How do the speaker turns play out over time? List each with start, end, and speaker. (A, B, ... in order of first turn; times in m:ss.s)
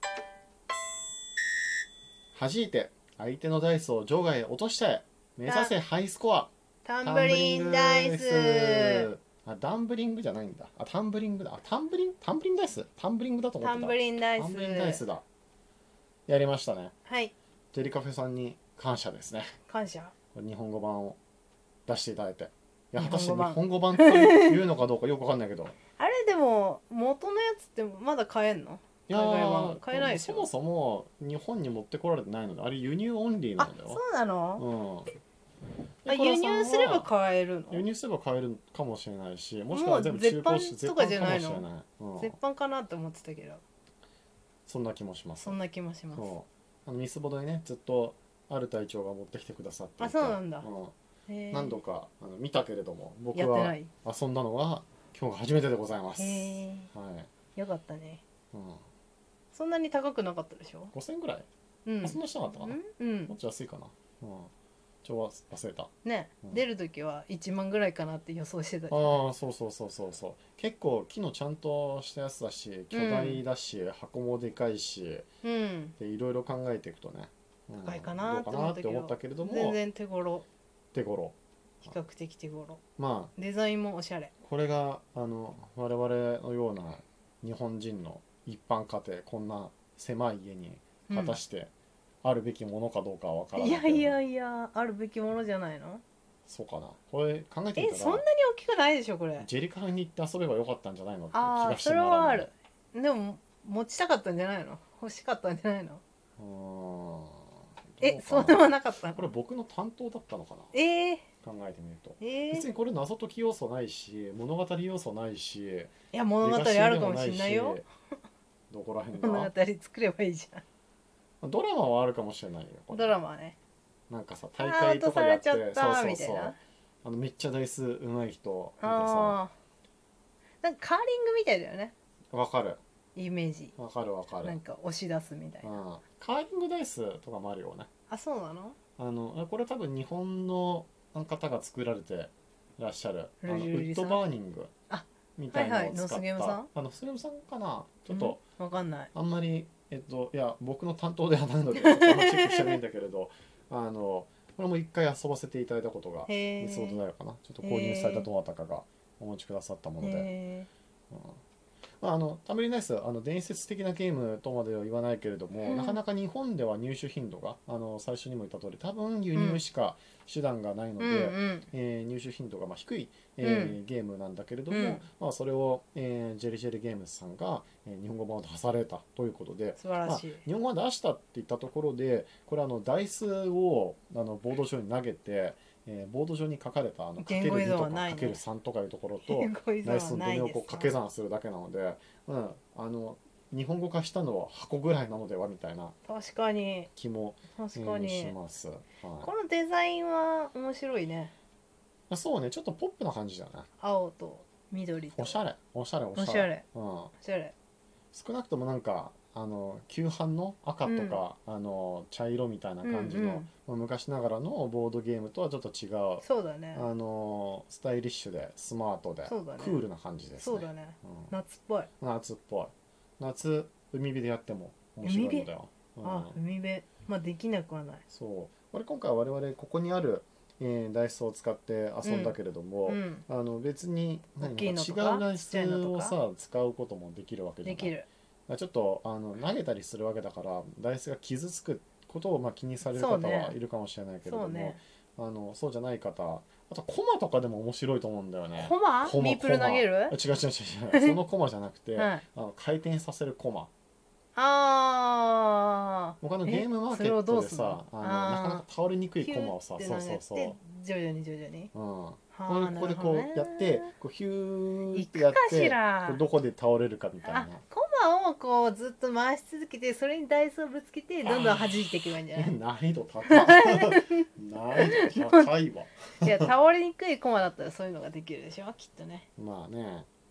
0:02.3-0:06.5 A
0:05.4-0:05.7 B
0:06.8-0:09.1 B
0:07.0-0:15.2 A
0:13.6-0:15.0 B
0:16.3-0:16.9 A
0:17.0-0:17.3 B
0:17.7-0:19.5 A
0:19.7-0:20.1 B
0:20.3-0:21.2 A
0:21.9-0:25.8 A
0:23.0-0:24.6 B
0:26.0-0:30.5 B
0:29.1-0:34.0 A
0:33.6-0:34.6 B
0:34.6-0:35.1 A
0:36.0-0:37.1 A
0:36.0-0:37.8 B
0:37.7-0:42.4 A
0:39.7-0:41.6 B
0:42.2-0:43.6 B
0:44.7-0:45.6 A
0:45.4-0:46.3 B
0:46.1-0:50.9 A
0:50.0-0:50.7 B
0:51.3-0:51.8 B
0:51.5-0:57.3 A
0:53.3-0:53.9 B
0:56.2-0:56.9 B
0:57.6-0:58.2 B
0:58.5-0:58.8 A
0:59.5-1:00.9 B
1:00.9-1:01.5 A
1:01.8-1:03.3 B
1:02.0-1:04.5 A
1:05.0-1:05.9 A
1:06.0-1:09.2 B
1:08.9-1:15.3 A
1:12.9-1:13.4 B
1:15.4-1:15.9 B
1:16.0-1:19.8 A
1:17.8-1:20.4 B
1:20.9-1:21.9 A
1:21.8-1:22.8 B
1:23.0-1:23.3 A
1:23.4-1:24.3 B
1:24.4-1:31.7 A
1:31.1-1:31.4 B
1:32.2-1:34.2 A
1:33.6-1:36.0 B
1:36.4-1:38.2 A
1:37.8-1:39.5 B
1:39.4-1:42.5 A
1:41.3-1:46.0 B
1:46.4-1:50.7 A
1:48.0-1:49.3 B
1:50.7-1:51.2 B
1:51.4-1:57.8 A
1:52.2-1:52.7 B
1:56.1-1:57.9 B
1:58.7-1:59.5 A
1:59.1-2:00.6 B
2:01.4-2:03.2 A
2:02.9-2:03.6 B
2:04.1-2:09.4 A
2:04.6-2:06.6 B
2:08.8-2:09.5 B
2:10.6-2:11.9 B
2:12.3-2:12.8 A
2:13.2-2:13.7 B
2:13.8-2:14.6 A
2:14.4-2:15.8 B
2:15.6-2:17.9 A
2:18.1-2:18.8 B
2:19.0-2:24.7 A
2:23.4-2:24.2 B
2:24.9-2:26.7 B
2:25.4-2:28.4 A
2:28.1-2:29.1 B
2:29.1-2:40.3 A
2:31.7-2:32.8 B
2:36.3-2:37.0 B
2:37.6-2:38.3 B
2:40.0-2:40.7 B
2:41.1-2:41.4 A
2:42.0-3:16.0 A
2:45.6-2:46.0 B
2:49.3-2:49.6 B
2:51.0-2:51.7 B
2:53.4-2:53.8 B
2:54.7-2:55.0 B
2:59.8-3:00.4 B
3:07.2-3:08.4 B
3:09.3-3:10.9 B
3:16.1-3:16.9 B
3:16.9-3:19.3 A
3:17.5-3:18.3 B
3:19.2-3:21.3 B
3:22.1-3:23.7 A
3:23.8-3:25.4 B
3:25.1-3:27.1 A
3:26.2-3:26.6 B
3:27.2-3:27.5 B
3:28.1-3:41.3 A
3:30.8-3:31.2 B
3:32.8-3:33.5 B
3:36.2-3:36.8 B
3:39.3-3:39.8 B
3:40.4-3:41.9 B
3:42.0-3:46.4 A
3:45.0-3:45.5 B
3:46.0-3:48.0 B
3:48.1-4:13.7 A
3:52.0-3:53.2 B
3:54.4-3:56.2 B
3:57.6-3:58.1 B
4:02.9-4:03.6 B
4:04.2-4:04.8 B
4:08.6-4:10.2 B
4:10.9-4:11.2 B
4:12.0-4:12.2 B
4:14.4-4:18.6 B
4:16.2-4:20.6 A
4:19.2-4:21.7 B
4:21.7-4:27.6 A
4:22.3-4:23.9 B
4:24.9-4:26.2 B
4:27.2-4:32.5 B
4:31.2-4:36.5 A
4:33.3-4:35.5 B
4:36.2-4:39.3 B
4:39.4-4:40.1 A